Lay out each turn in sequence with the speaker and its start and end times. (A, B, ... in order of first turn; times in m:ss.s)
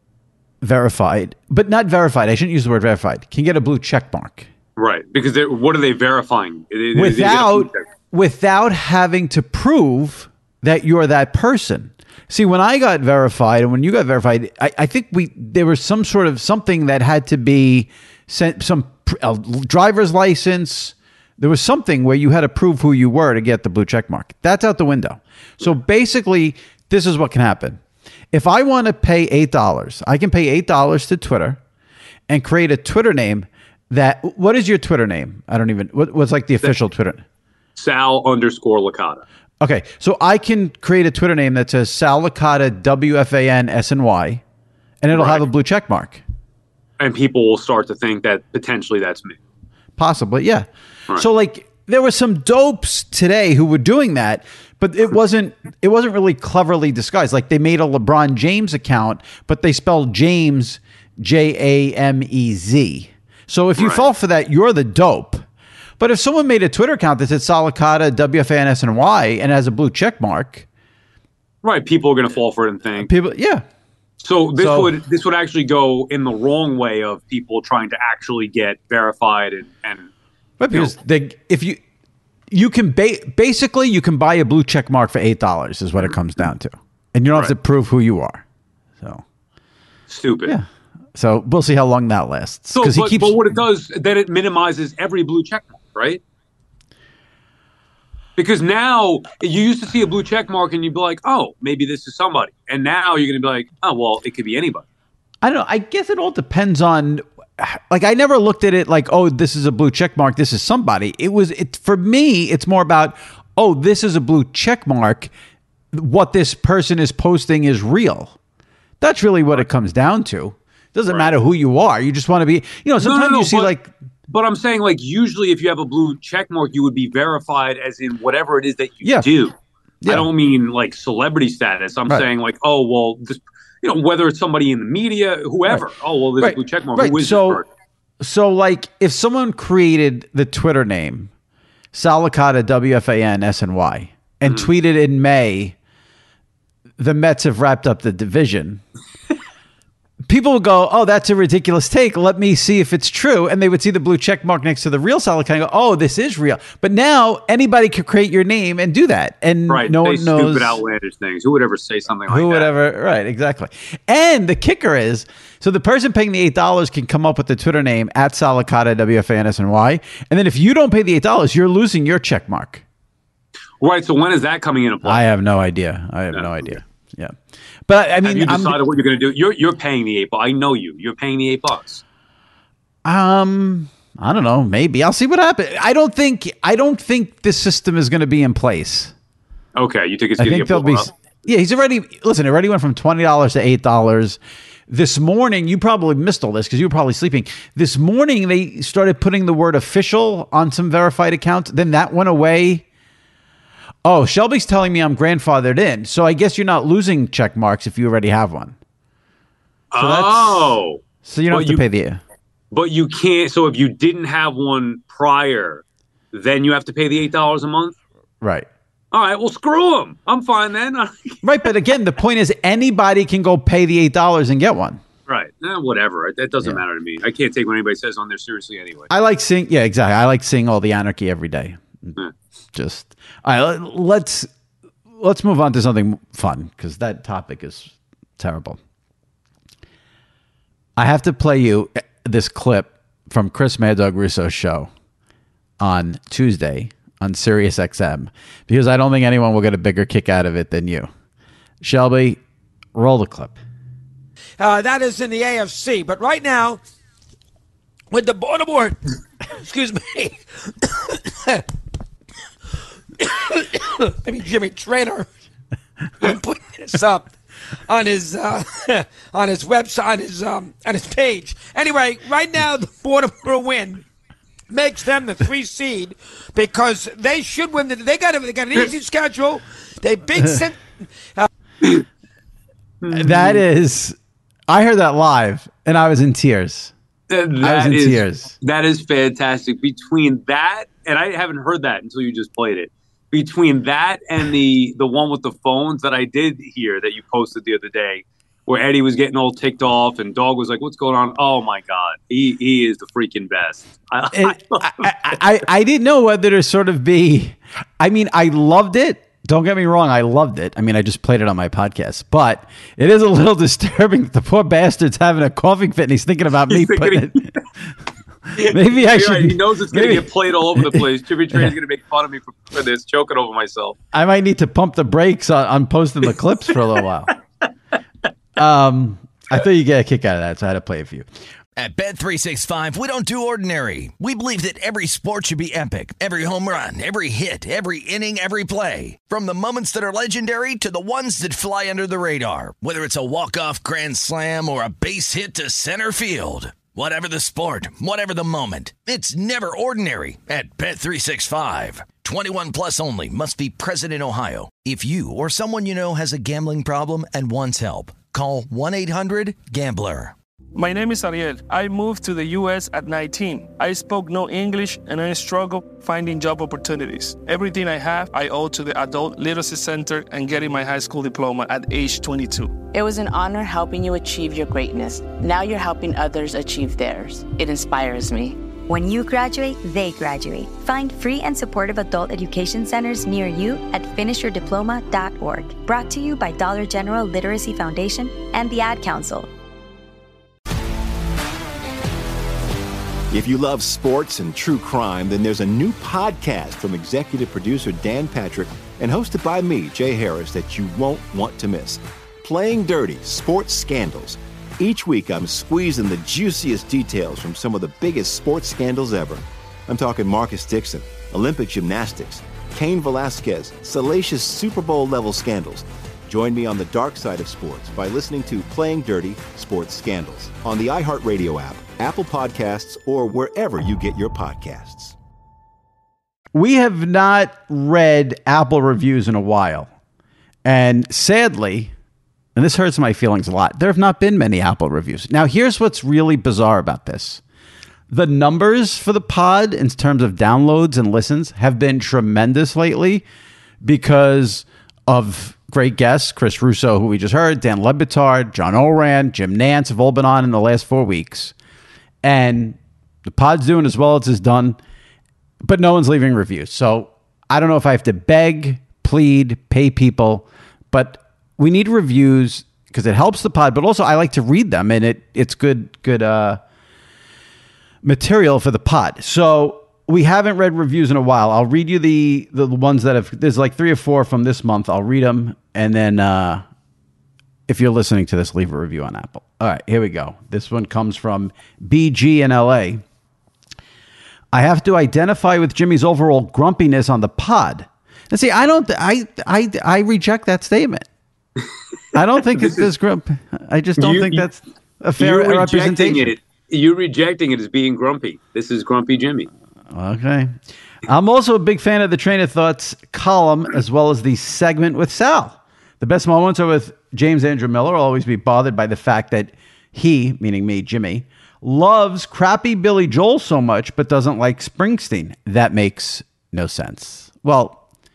0:00.6-0:04.5 A
0:04.8-0:07.8 B
0:06.9-0:27.8 A
0:28.3-0:31.6 A
0:32.3-0:37.2 A
0:37.8-0:39.2 B
0:39.6-0:44.4 A
0:45.0-0:46.2 A
0:45.1-0:45.4 B
0:47.0-0:49.4 B
0:50.0-1:05.4 A
1:03.8-1:04.1 B
1:06.0-1:10.7 A
1:11.6-1:13.1 B
1:13.0-1:13.6 A
1:14.2-1:20.1 B
1:14.6-1:14.9 A
1:20.6-1:21.8 A
1:22.5-1:28.4 A
1:30.1-1:30.6 B
1:30.4-1:33.4 A
1:32.7-1:36.2 B
1:38.4-1:44.8 B
1:45.4-1:55.3 A
1:55.9-1:58.4 A
1:59.0-2:03.9 A
2:01.1-2:01.3 B
2:03.0-2:03.7 B
2:04.3-2:09.5 B
2:09.0-2:09.3 A
2:10.0-2:10.3 A
2:10.0-2:17.7 B
2:16.4-2:17.6 A
2:18.2-2:21.3 A
2:21.9-2:25.8 A
2:27.0-2:28.8 A
2:30.2-2:40.8 A
2:39.7-2:42.7 B
2:42.3-2:52.8 A
2:53.8-2:55.2 B
2:55.0-2:58.8 A
2:56.3-2:56.8 B
2:58.2-3:02.0 B
3:03.0-3:09.1 A
3:09.7-3:11.1 B
3:10.4-3:22.8 A
3:24.0-3:28.8 A
3:29.9-3:31.8 B
3:30.0-3:32.2 A
3:32.7-3:38.0 B
3:38.4-3:38.7 A
3:39.1-3:41.4 B
3:41.4-3:45.0 A
3:45.3-3:49.1 B
3:49.1-3:52.1 A
3:52.7-3:54.5 A
3:55.2-3:58.8 A
4:01.0-4:04.9 A
4:05.8-4:11.1 A
4:11.8-4:12.4 A
4:13.0-4:13.6 A
4:14.6-4:16.8 C
4:18.1-4:20.4 C
4:21.3-4:21.6 C
4:23.2-4:25.3 C
4:26.2-4:27.3 C
4:27.9-4:34.0 C
4:34.7-4:41.4 C
4:43.0-4:43.6 B
4:43.1-4:44.2 A
4:44.7-4:46.9 A
4:47.3-5:05.4 B
4:47.6-4:48.5 A
5:04.3-5:17.5 A
5:16.7-5:17.5 B
5:18.6-5:24.0 B
5:18.6-5:21.7 A
5:24.1-5:27.3 A
5:28.6-5:31.2 A
5:31.8-6:00.4 D
6:00.8-6:12.8 E
6:12.9-6:18.6 F
6:18.9-6:29.5 G
6:33.3-7:05.2 H
7:06.5-7:09.9 A
7:10.6-7:11.9 A
7:12.6-7:17.4 A
7:18.1-7:23.2 A
7:23.8-7:31.5 A
7:32.2-7:34.8 A
7:35.6-7:46.6 A
7:48.0-7:56.6 A
7:57.7-8:03.0 A
8:04.5-8:11.1 A
8:12.1-8:16.4 A
8:12.6-8:12.9 B
8:14.0-8:14.5 B
8:15.2-8:19.5 B
8:19.9-8:37.8 A